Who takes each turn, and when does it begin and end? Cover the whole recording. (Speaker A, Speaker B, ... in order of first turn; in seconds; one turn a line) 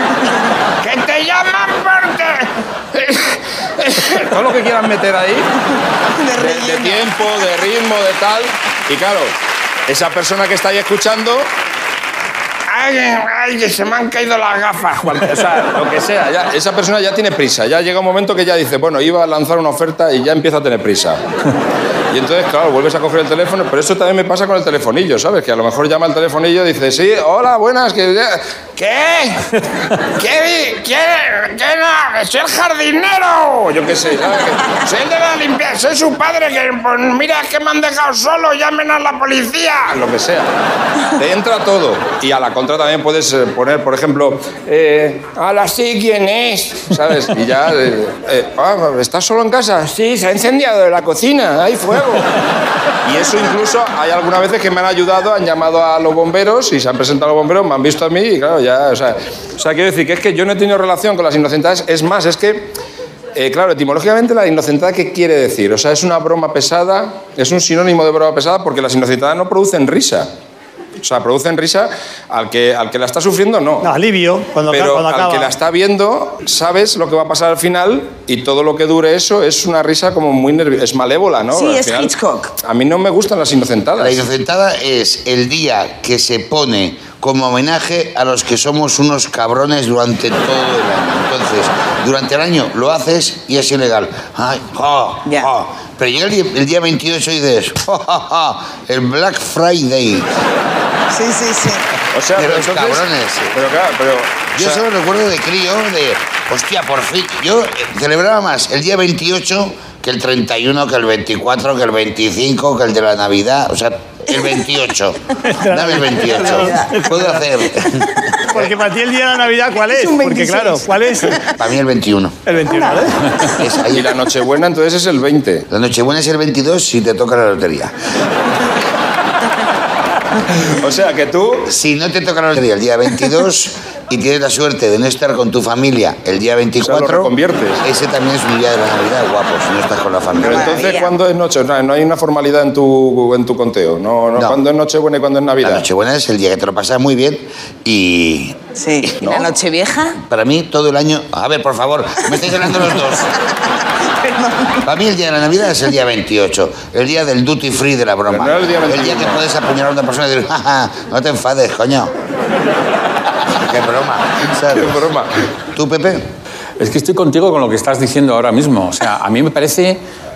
Speaker A: 0.8-5.5
Speaker B: 6.2-7.2
Speaker A: 6.4-9.3
Speaker A: 9.9-11.5
Speaker A: 12.7-21.2
Speaker A: 22.1-29.4
Speaker A: 30.2-40.5
Speaker A: 41.1-52.3
Speaker A: 53.0-62.7
Speaker A: 63.3-70.3
Speaker A: 71.0-73.8
Speaker C: 73.8-75.5
Speaker A: 74.7-82.1
Speaker B: 81.5-82.5
Speaker A: 82.6-84.2
Speaker D: 84.0-100.2
Speaker B: 101.1-101.8
Speaker A: 102.1-104.8
Speaker D: 102.3-103.5
Speaker D: 104.5-118.7
Speaker C: 115.5-117.6
Speaker B: 116.1-116.9
Speaker C: 118.5-121.3
Speaker B: 119.9-121.4
Speaker D: 121.6-122.4
Speaker C: 122.5-123.3
Speaker B: 122.7-123.1
Speaker D: 123.5-124.2
Speaker A: 123.9-125.6
Speaker D: 125.7-127.9
Speaker A: 130.7-131.7
Speaker D: 131.7-140.8
Speaker A: 136.8-137.8
Speaker A: 140.4-145.8
Speaker B: 140.4-141.1
Speaker D: 145.6-148.6
Speaker B: 148.7-150.2
Speaker D: 149.2-149.5
Speaker D: 150.2-153.2
Speaker B: 154.0-154.8
Speaker D: 154.8-162.1
Speaker A: 158.3-159.4
Speaker D: 163.6-164.9
Speaker A: 164.6-165.3
Speaker D: 165.7-166.2
Speaker E: 166.8-170.0